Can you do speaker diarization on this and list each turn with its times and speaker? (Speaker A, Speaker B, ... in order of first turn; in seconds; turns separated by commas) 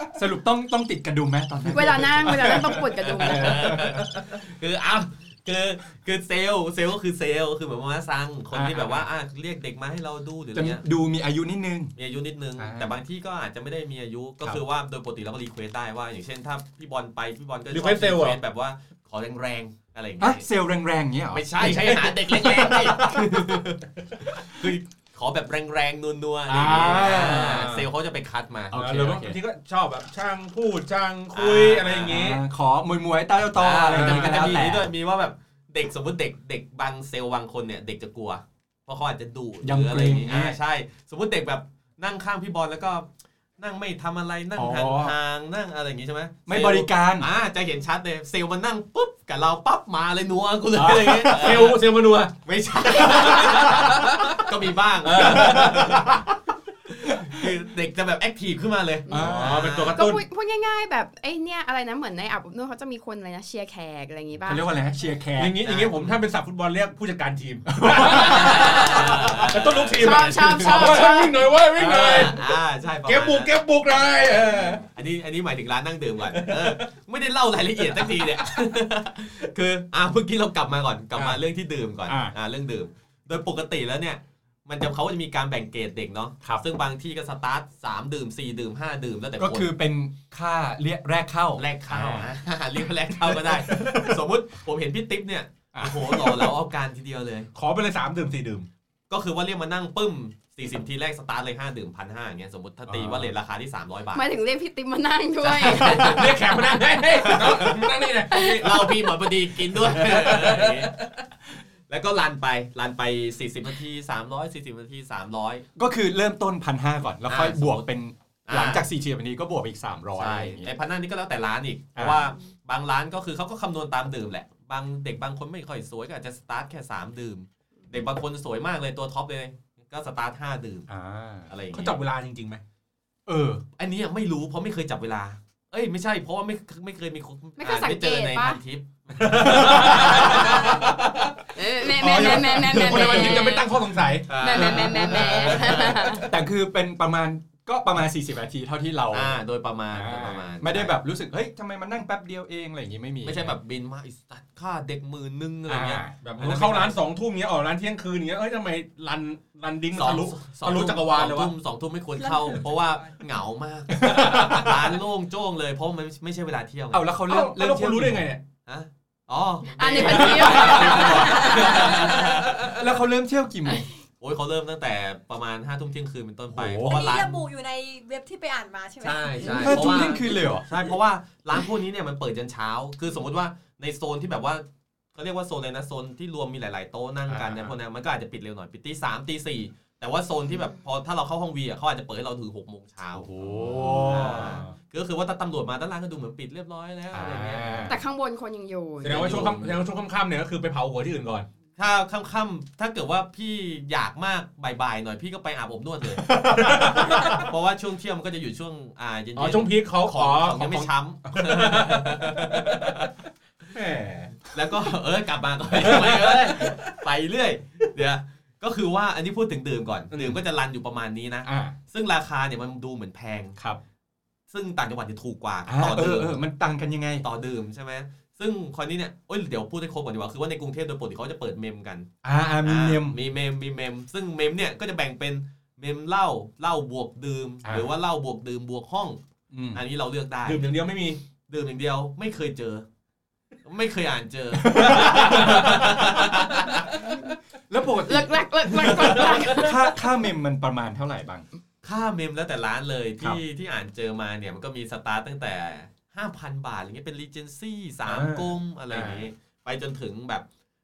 Speaker A: 0.1-4.0, Speaker B: 1.6-3.7, Speaker C: 3.0-10.8, Speaker A: 8.5-9.1, Speaker A: 10.5-11.9, Speaker C: 12.0-20.4, Speaker A: 12.6-12.9, Speaker D: 17.7-18.4, Speaker A: 20.2-21.8, Speaker C: 21.3-28.7, Speaker D: 21.6-23.1, Speaker A: 22.5-23.2, Speaker D: 26.5-27.9, Speaker A: 28.7-29.4, Speaker D: 28.7-32.4, Speaker C: 31.3-32.3, Speaker A: 32.1-34.9, Speaker C: 33.5-43.0, Speaker D: 33.9-34.6, Speaker A: 39.6-40.6, Speaker C: 43.6-51.9, Speaker A: 44.5-45.1, Speaker A: 46.5-47.3, Speaker D: 50.7-54.5, Speaker C: 52.4-56.2, Speaker D: 55.0-56.3, Speaker C: 57.0-60.0, Speaker A: 59.1-59.7, Speaker D: 59.2-60.2, Speaker B: 60.0-64.6, Speaker A: 64.4-65.5, Speaker D: 65.3-74.8, Speaker C: 65.6-66.2, Speaker A: 67.7-69.0, Speaker C: 68.0-71.1, Speaker B: 70.0-71.5, Speaker C: 71.8-73.6, Speaker A: 71.8-72.2, Speaker C: 74.8-89.7, Speaker D: 76.2-76.9, Speaker D: 78.0-78.5, Speaker D: 82.1-82.3, Speaker A: 89.4-92.3, Speaker C: 91.6-97.5, Speaker A: 93.5-94.0, Speaker A: 95.7-96.5, Speaker D: 97.5-98.7, Speaker C: 99.1-104.2, Speaker A: 102.9-103.3, Speaker B: 104.1-106.2, Speaker C: 105.5-106.5, Speaker D: 105.8-109.0, Speaker C: 107.1-111.0, Speaker B: 108.3-108.8, Speaker D: 109.7-111.1, Speaker C: 111.9-115.6, Speaker A: 115.8-120.7, Speaker C: 117.3-117.9, Speaker C: 118.5-118.8, Speaker C: 120.2-130.9, Speaker A: 122.0-122.3, Speaker A: 130.9-131.5, Speaker C: 131.5-132.0, Speaker D: 131.7-132.6, Speaker A: 133.2-133.6, Speaker C: 133.8-140.9, Speaker B: 137.6-138.6, Speaker D: 139.1-141.4, Speaker A: 139.4-140.7, Speaker B: 141.5-143.7, Speaker A: 141.9-143.5, Speaker D: 142.0-146.2, Speaker C: 144.3-146.1, Speaker B: 144.3-146.2, Speaker A: 144.5-145.7, Speaker A: 146.2-149.4, Speaker C: 149.1-150.9, Speaker A: 149.9-153.5, Speaker C: 153.2-157.0, Speaker A: 155.7-156.2, Speaker D: 156.2-161.5, Speaker C: 159.9-167.1, Speaker E: 162.2-162.6, Speaker A: 163.9-164.9, Speaker A: 166.9-168.3, Speaker D: 167.3-168.4, Speaker C: 168.7-172.8, Speaker B: 169.7-172.0, Speaker D: 170.0-172.7, Speaker A: 170.2-173.9, Speaker C: 174.2-177.4, Speaker A: 176.5-177.2, Speaker E: 176.8-180.2, Speaker C: 179.0-184.6, Speaker A: 179.5-180.8, Speaker C: 185.1-197.9, Speaker A: 187.3-187.7, Speaker A: 193.1-194.7, Speaker D: 194.1-194.7, Speaker A: 197.1-198.0, Speaker B: 197.9-199.5, Speaker C: 199.0-199.8, Speaker D: 199.0-201.5, Speaker C: 201.8-213.1, Speaker A: 206.2-207.2, Speaker D: 206.3-207.5, Speaker D: 209.3-212.9, Speaker D: 213.7-214.3, Speaker A: 213.7-214.0, Speaker C: 214.5-223.6, Speaker D: 215.8-217.0, Speaker A: 221.4-221.7, Speaker C: 224.5-226.3, Speaker A: 225.7-227.2, Speaker C: 227.2-232.1, Speaker A: 232.2-233.2, Speaker C: 232.6-239.2, Speaker A: 237.6-237.9, Speaker A: 239.5-239.8, Speaker C: 239.7-240.7, Speaker D: 240.4-241.2, Speaker C: 241.5-242.8, Speaker C: 243.6-246.9, Speaker A: 244.6-251.4, Speaker D: 244.7-247.0, Speaker B: 248.1-249.9, Speaker C: 251.8-260.4, Speaker A: 258.0-259.3